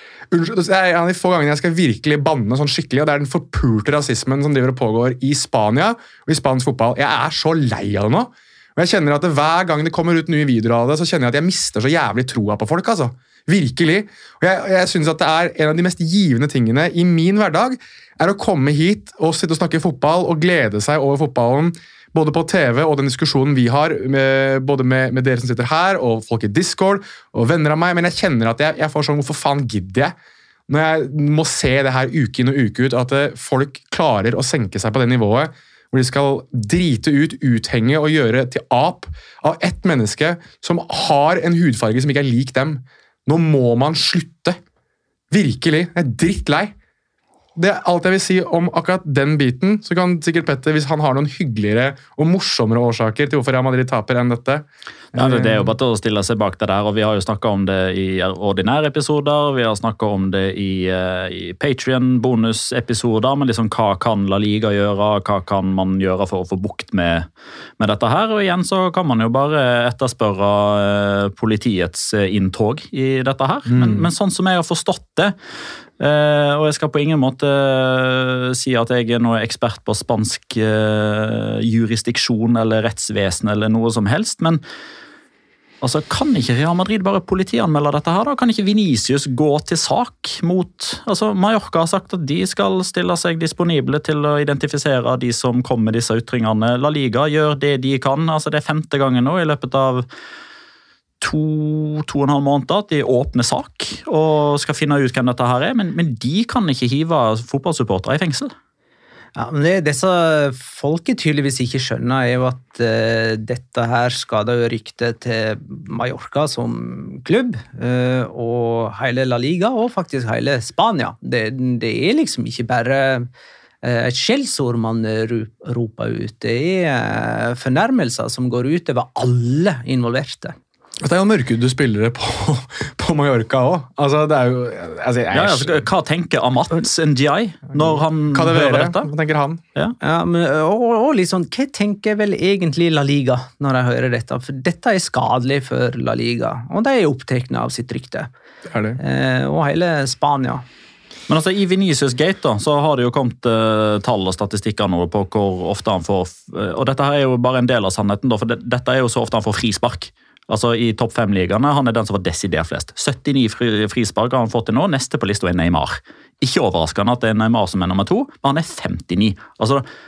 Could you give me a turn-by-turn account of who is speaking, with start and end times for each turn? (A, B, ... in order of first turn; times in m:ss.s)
0:00.3-0:30.2 A
0:30.7-0:44.6 A
0:45.3-0:46.8 A
0:47.6-0:55.7 A
0:55.1-1:07.3 B
1:07.8-1:15.4 B
1:13.7-1:14.1 A
1:16.0-1:24.6 B
1:25.8-1:40.1 B
1:41.2-1:48.5 B
1:49.4-2:03.3 C
2:03.8-2:10.6 C
2:11.0-2:15.8 A
2:15.3-2:19.1 B
2:17.7-2:19.6 A
2:20.0-2:28.3 C
2:28.7-2:29.0 A
2:29.0-2:30.6 C
2:31.3-2:49.8 B